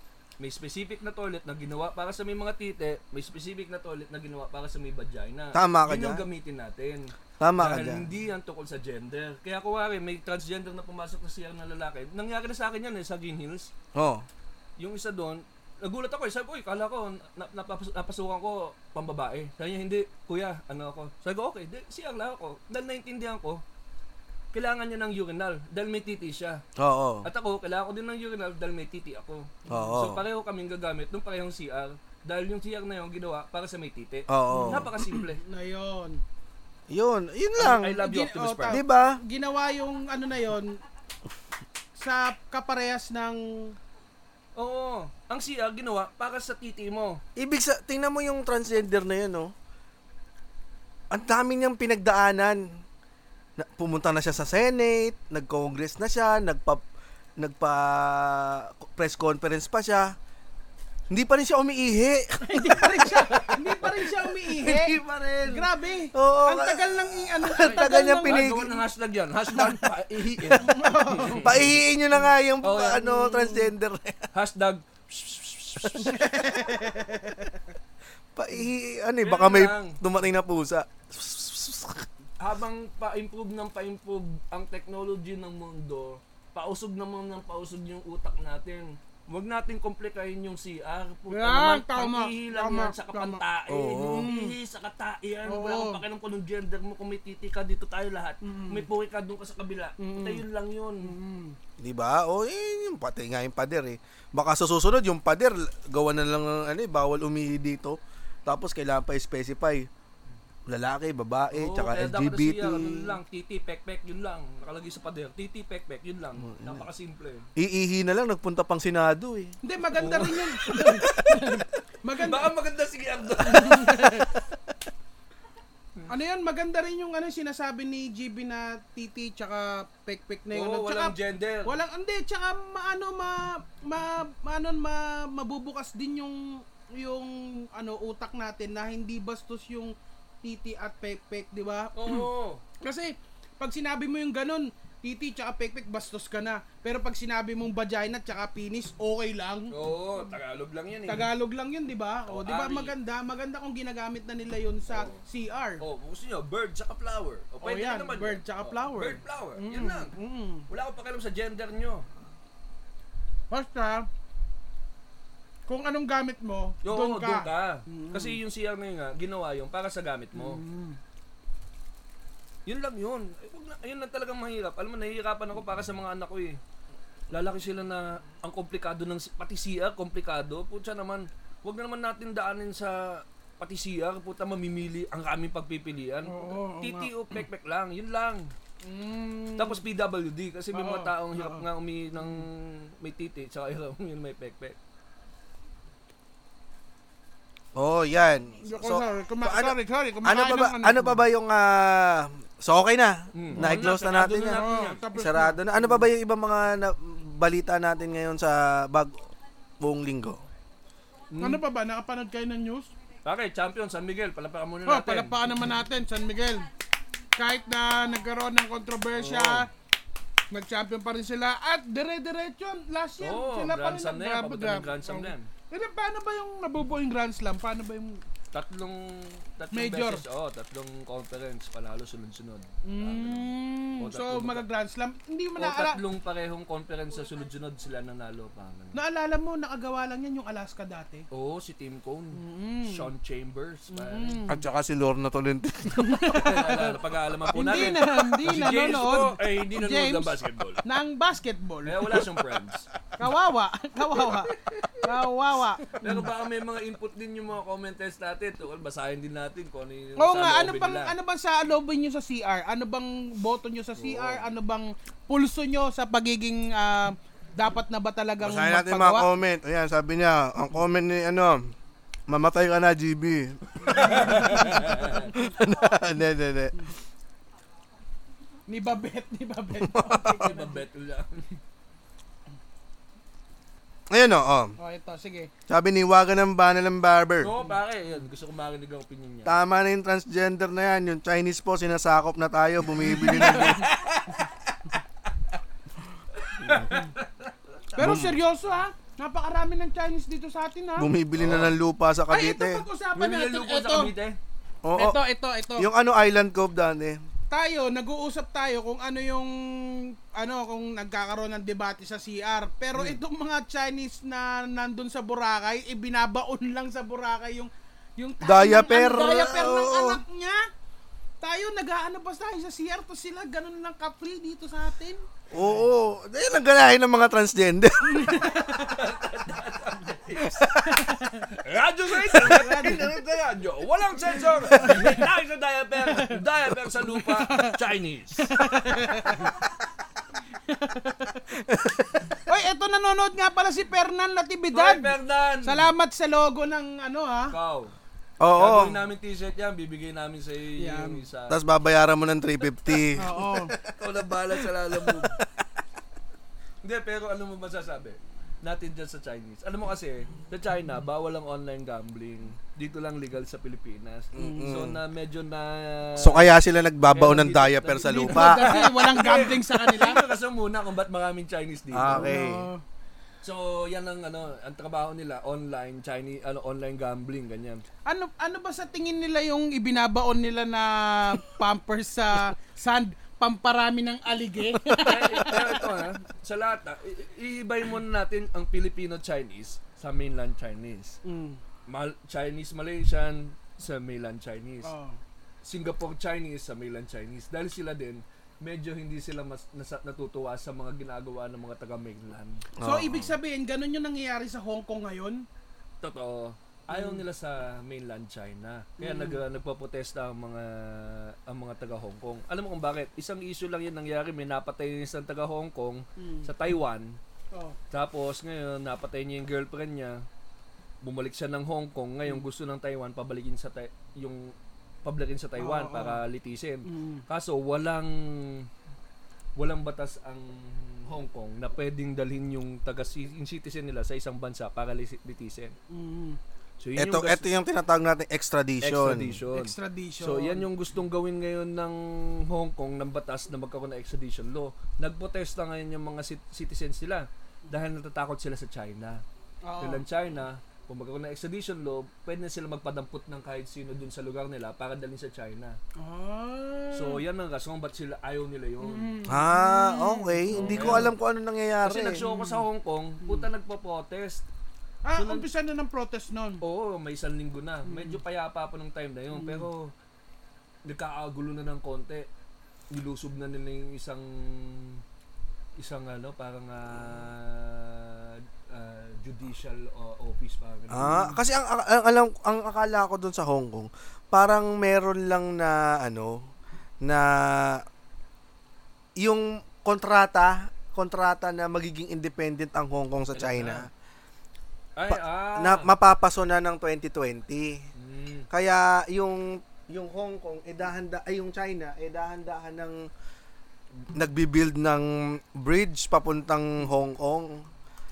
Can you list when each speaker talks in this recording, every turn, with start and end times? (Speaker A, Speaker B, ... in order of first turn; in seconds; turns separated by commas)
Speaker A: 0.4-13.7, Speaker B: 5.5-6.2, Speaker B: 7.4-8.1, Speaker B: 13.9-14.2, Speaker A: 14.8-23.6, Speaker A: 24.5-26.6, Speaker B: 26.8-27.3, Speaker A: 27.2-35.4, Speaker B: 29.7-30.2, Speaker B: 34.3-34.9, Speaker C: 34.5-36.2, Speaker B: 36.9-38.0, Speaker A: 37.6-38.8, Speaker C: 38.0-40.8, Speaker B: 38.7-39.2, Speaker C: 42.0-43.8, Speaker A: 44.5-47.2, Speaker B: 47.4-49.5, Speaker B: 51.1-52.8, Speaker B: 53.6-56.8, Speaker B: 57.4-60.1, Speaker B: 61.1-68.7, Speaker C: 62.4-68.6, Speaker A: 67.6-71.7, Speaker C: 70.5-71.7, Speaker B: 71.4-74.3, Speaker A: 72.6-73.5, Speaker A: 74.3-76.4, Speaker B: 75.9-76.9, Speaker C: 76.0-77.5, Speaker B: 78.3-82.0, Speaker A: 79.2-80.0, Speaker A: 82.4-101.1, Speaker C: 91.3-93.4, Speaker B: 93.7-94.3, Speaker C: 94.0-94.5, Speaker C: 95.5-96.0, Speaker C: 98.4-98.8, Speaker C: 100.0-100.4, Speaker C: 101.0-101.5, Speaker B: 101.8-109.9, Speaker B: 110.7-113.2, Speaker A: 111.5-117.5, Speaker B: 116.4-116.8, Speaker B: 117.5-119.5, Speaker C: 119.6-122.5, Speaker A: 120.0-121.5, Speaker A: 122.2-124.2, Speaker C: 123.5-124.3, Speaker C: 126.1-142.3, Speaker A: 130.5-131.8, Speaker A: 141.9-142.6, Speaker C: 142.8-150.3, Speaker A: 149.7-151.3, Speaker C: 151.1-155.8, Speaker A: 152.3-152.9, Speaker A: 154.9-155.2, Speaker A: 155.8-160.1, Speaker C: 157.6-160.7, Speaker A: 160.7-162.1, Speaker C: 163.5-164.1, Speaker C: 165.7-168.4, Speaker A: 166.8-170.6, Speaker C: 170.3-171.0, Speaker A: 172.7-176.6, Speaker A: 177.3-188.5, Speaker C: 186.2-187.1, Speaker C: 188.8-189.8, Speaker A: 189.6-194.8, Speaker C: 190.7-191.6, Speaker B: 197.7-209.2, Speaker C: 198.6-201.2, Speaker A: 203.3-205.0, Speaker C: 203.5-203.8, Speaker C: 204.4-205.6, Speaker B: 209.8-210.4, Speaker A: 211.3-211.6, Speaker C: 211.4-212.9, Speaker A: 213.2-215.3, Speaker C: 214.8-216.7, Speaker C: 217.3-219.7, Speaker A: 219.2-219.6, Speaker C: 220.5-228.2, Speaker A: 223.2-225.5, Speaker A: 228.5-234.6, Speaker C: 229.7-230.2, Speaker C: 232.8-236.0, Speaker A: 235.6-239.0, Speaker C: 238.9-241.2, Speaker A: 241.3-244.4, Speaker C: 242.3-243.1, Speaker C: 243.9-244.6, Speaker B: 244.5-246.4, Speaker C: 245.9-246.9, Speaker A: 246.3-250.8, Speaker C: 247.5-252.2, Speaker A: 251.8-252.9, Speaker C: 253.2-256.3, Speaker A: 254.2-255.0, Speaker A: 256.0-261.1, Speaker C: 260.2-269.3, Speaker A: 264.0-264.4, Speaker B: 268.4-271.7, Speaker B: 272.3-276.7, Speaker A: 273.9-275.3, Speaker C: 273.9-275.9, Speaker C: 278.7-280.8, Speaker B: 279.8-280.3, Speaker A: 280.2-281.5, Speaker B: 284.1-284.8, Speaker C: 284.8-285.5, Speaker B: 285.7-287.5, Speaker A: 287.4-289.5, Speaker B: 289.4-293.9, Speaker C: 293.1-294.1, Speaker A: 293.2-294.3, Speaker A: 296.4-297.5, Speaker C: 297.9-301.1, Speaker B: 298.0-298.4, Speaker B: 301.0-302.8, Speaker A: 301.4-301.8, Speaker C: 302.3-304.1, Speaker A: 303.1-304.4, Speaker B: 304.8-305.2, Speaker C: 304.9-305.9, Speaker B: 305.8-307.2, Speaker C: 307.5-320.6, Speaker B: 318.4-320.2, Speaker C: 321.4-325.2, Speaker B: 325.5-328.5, Speaker A: 325.6-325.8, Speaker C: 328.1-328.9, Speaker A: 328.5-330.7, Speaker B: 330.4-330.7, Speaker C: 330.7-331.5, Speaker A: 331.5-338.5, Speaker C: 332.2-333.1, Speaker C: 334.2-335.2, Speaker C: 336.1-336.4, Speaker C: 337.0-337.8, Speaker C: 338.4-339.6, Speaker C: 340.6-341.4, Speaker B: 341.5-342.3, Speaker C: 342.5-345.1, Speaker A: 344.7-345.9, Speaker C: 345.6-347.5, Speaker A: 347.5-347.9, Speaker B: 348.4-349.0, Speaker A: 348.5-351.6, Speaker C: 350.8-351.2, Speaker B: 351.5-353.9, Speaker C: 353.1-353.7, Speaker A: 353.9-355.4, Speaker B: 354.5-355.4, Speaker A: 356.8-366.5, Speaker B: 364.3-365.0, Speaker C: 364.4-364.7, Speaker B: 366.2-368.7, Speaker A: 367.1-372.3, Speaker C: 368.1-370.2, Speaker B: 371.9-372.7, Speaker C: 372.1-372.8, Speaker A: 373.4-377.8, Speaker C: 378.1-386.0, Speaker A: 384.9-391.2, Speaker C: 391.2-391.6, Speaker A: 391.9-394.9, Speaker C: 394.8-395.2, Speaker A: 395.6-402.6, Speaker B: 402.8-403.4, Speaker C: 402.8-405.4, Speaker A: 406.0-417.2, Speaker C: 406.9-407.2, Speaker C: 409.0-409.4, Speaker C: 416.2-416.5, Speaker A: 417.9-420.2, Speaker A: 421.0-428.7, Speaker C: 425.6-426.2, Speaker C: 426.9-427.2, Speaker A: 429.6-435.7, Speaker C: 435.9-436.4, Speaker A: 436.8-437.4, Speaker B: 436.9-439.4, Speaker A: 438.8-449.2, Speaker C: 439.5-440.6, Speaker C: 449.6-450.0, Speaker A: 449.8-455.8, Speaker C: 456.0-457.2, Speaker A: 456.9-459.1, Speaker C: 458.8-461.1, Speaker B: 459.3-462.2, Speaker A: 460.5-461.1, Speaker A: 461.8-464.4, Speaker C: 462.2-462.6, Speaker C: 465.0-466.6, Speaker A: 465.1-465.4, Speaker A: 466.6-469.9, Speaker C: 467.9-468.2, Speaker C: 469.3-469.7, Speaker A: 470.8-472.3, Speaker A: 472.9-475.0, Speaker A: 475.8-481.2, Speaker B: 480.9-486.5, Speaker C: 481.0-481.4, Speaker B: 487.0-487.8, Speaker B: 489.2-493.9, Speaker A: 493.3-493.9, Speaker A: 494.9-495.9, Speaker B: 495.1-497.8, Speaker A: 497.9-498.5, Speaker B: 498.5-503.1, Speaker B: 504.1-507.6